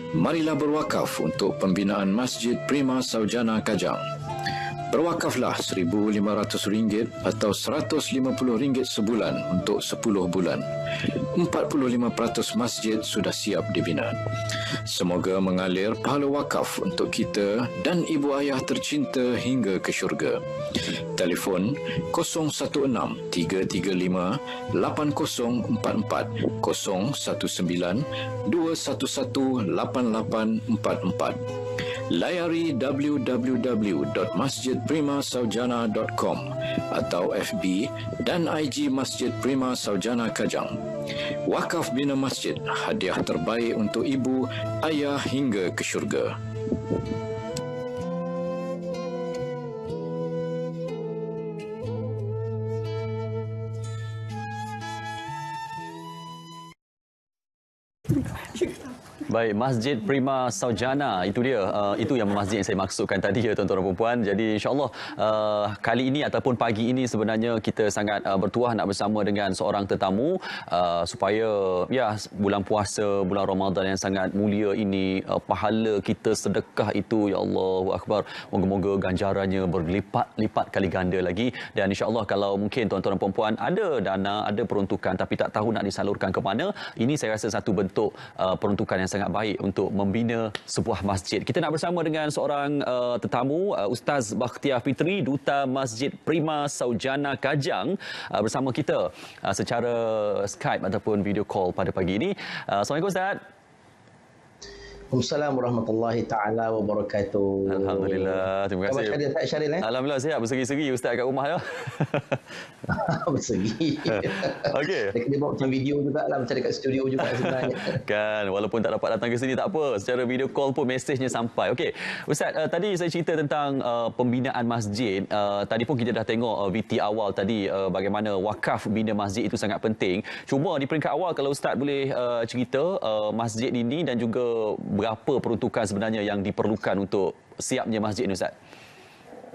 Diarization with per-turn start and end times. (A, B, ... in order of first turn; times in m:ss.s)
0:00.2-0:04.0 A
0:04.9-0:31.4 A
0:32.1-0:40.8 A
0:41.5-0:46.4 A
0:59.3-1:43.4 B
1:45.1-1:49.8 C
1:47.7-1:49.2 B
1:49.8-1:52.4 B
1:52.9-1:58.0 C
1:54.1-1:55.2 B
1:57.3-2:18.5 B